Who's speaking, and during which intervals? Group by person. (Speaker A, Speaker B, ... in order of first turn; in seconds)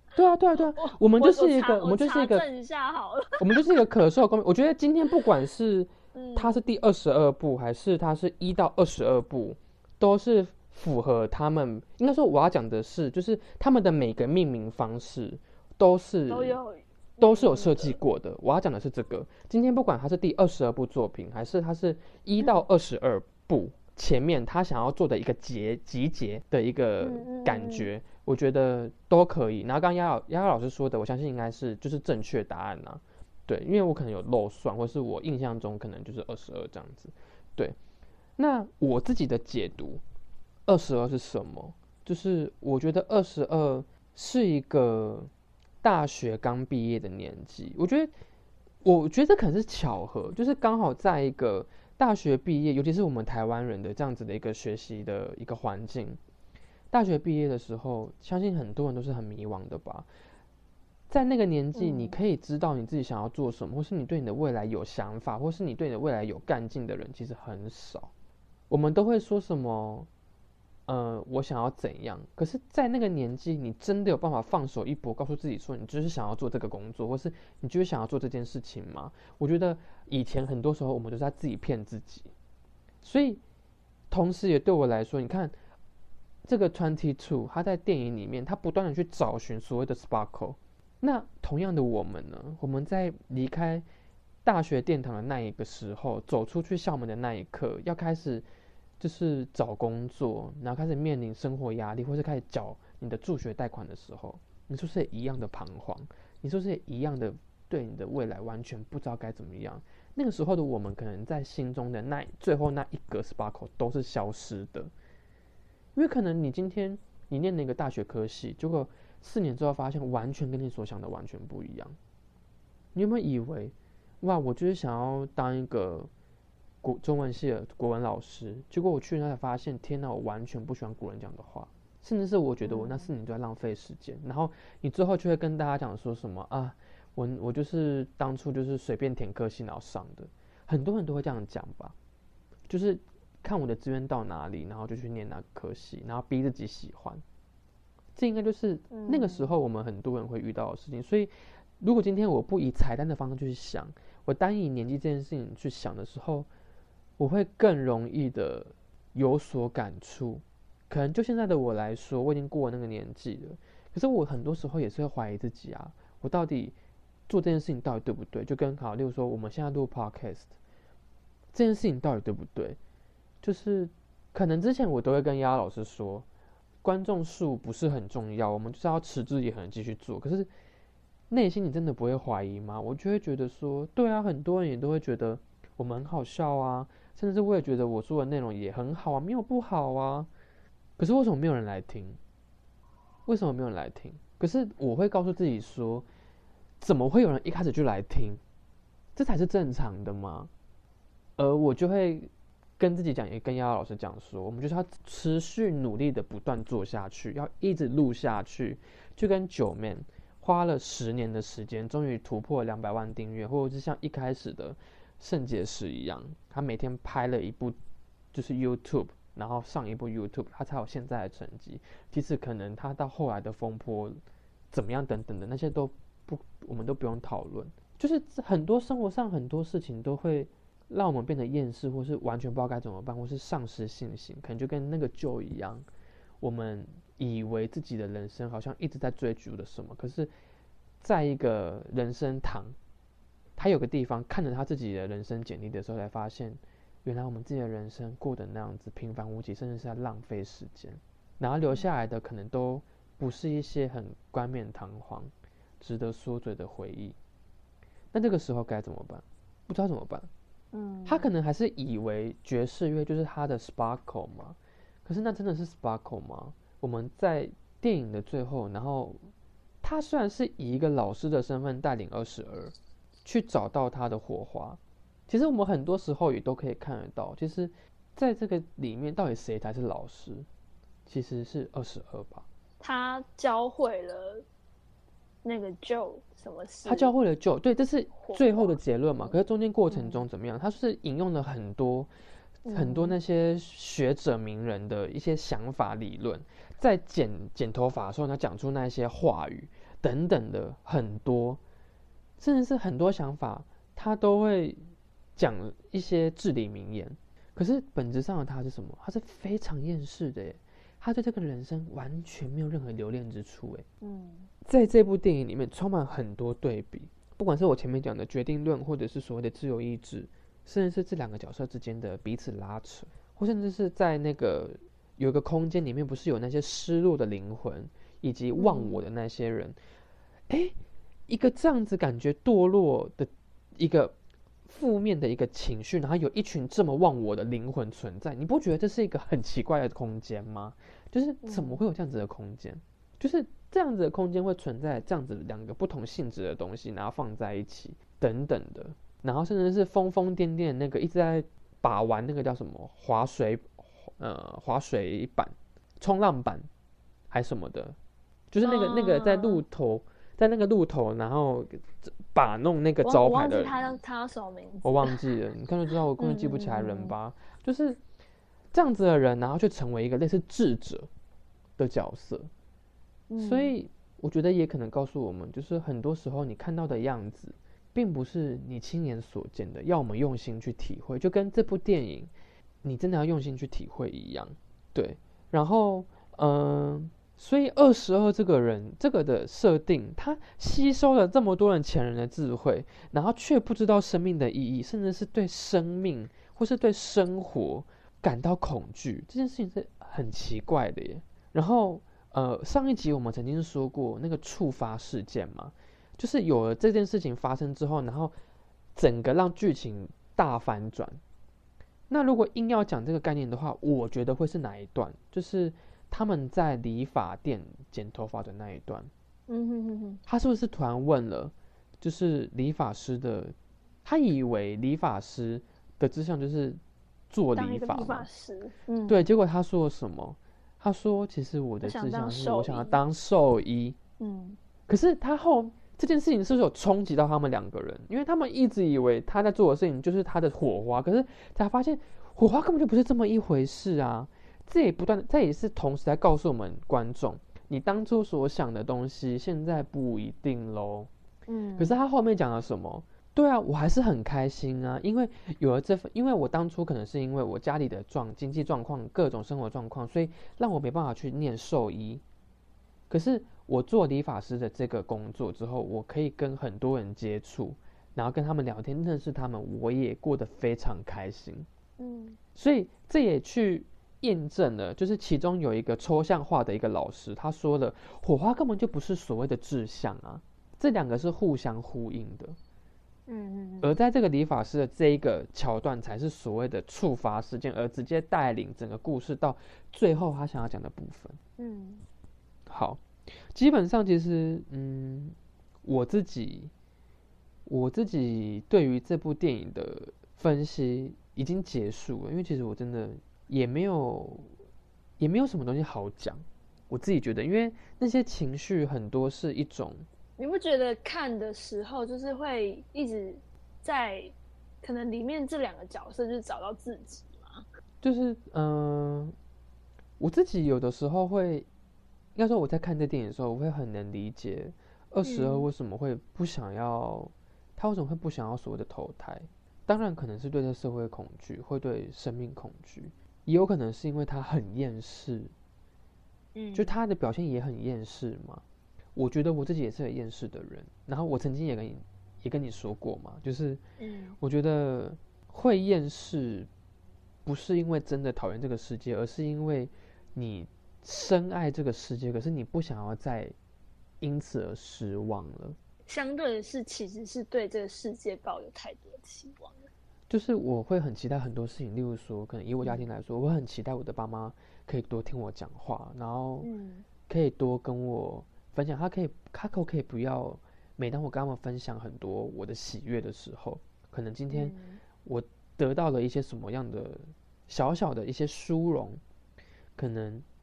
Speaker A: 0.1-2.5, 3.4-16.6, 17.2-37.8, 38.4-40.0, 40.7-45.3, 45.8-48.1, 48.8-56.2, 56.9-60.1, 61.1-68.1, 68.7-70.1, 70.9-82.3, 83.0-83.4, 84.1-85.5, 86.5-93.8, 94.4-98.4, 99.0-114.9, 115.9-122.0, 122.9-126.1, 126.8-141.9, 142.7-147.2, 148.1-156.5, 157.2-166.7, 167.3-170.5, 171.5-172.8, 173.4-176.2, 176.8-180.5, 181.3-190.3, 191.0-192.2, 193.2-196.1, 196.8-198.4, 199.2-200.5, 201.4-217.8, 218.3-224.2, 224.7-235.8, 236.4-240.3, 241.0-242.8, 243.6-257.2, 258.1-260.3, 261.1-269.2, 269.8-272.7, 273.2-280.5, 281.1-282.4, 286.8-292.1, 292.7-301.6, 302.4-304.8, 305.4-313.8, 314.6-329.8, 330.5-330.7, 331.3-334.1, 334.7-356.7, 357.3-358.0, 358.5-363.9, 364.8-368.0, 368.7-371.1, 371.8-372.5, 373.4-382.3, 382.8-408.3, 408.9-411.2, 412.1-419.1, 420.3-423.5, 424.0-426.8, 427.3-428.3, 429.1-434.0, 434.9-451.1, 451.8-462.2, 463.1-471.7, 472.5-482.6, 483.8-491.4, 492.7-493.0, 493.5-496.7, 497.6-504.5, 505.2-510.1, 518.0-519.3, 520.2-521.7, 522.4-535.5, 536.7-538.6, 539.1-543.8, 544.4-546.7, 547.4-553.5, 554.2-555.8, 560.3-566.7, 567.3-579.2, 580.0-580.4
Speaker B: 0.6-3.6, 6.1-6.6, 16.3-18.0, 27.0-27.9, 61.8-62.2, 132.6-133.1, 148.9-149.5, 260.7-261.3, 282.8-284.4, 285.4-287.1, 288.2-288.8, 289.9-290.2, 292.6-293.1, 314.0-314.5, 328.6-329.0, 341.4-341.8, 358.6-359.6, 363.0-365.2, 366.2-367.1, 373.3-373.7, 419.5-420.2, 427.5-429.1, 431.8-433.0, 434.2-434.6, 451.5-451.9, 472.0-472.4, 483.3-483.9, 491.6-492.0, 510.4-517.6, 525.2-525.7, 536.5-536.9, 544.0-544.4, 556.1-559.9, 566.6-567.0, 574.5-575.0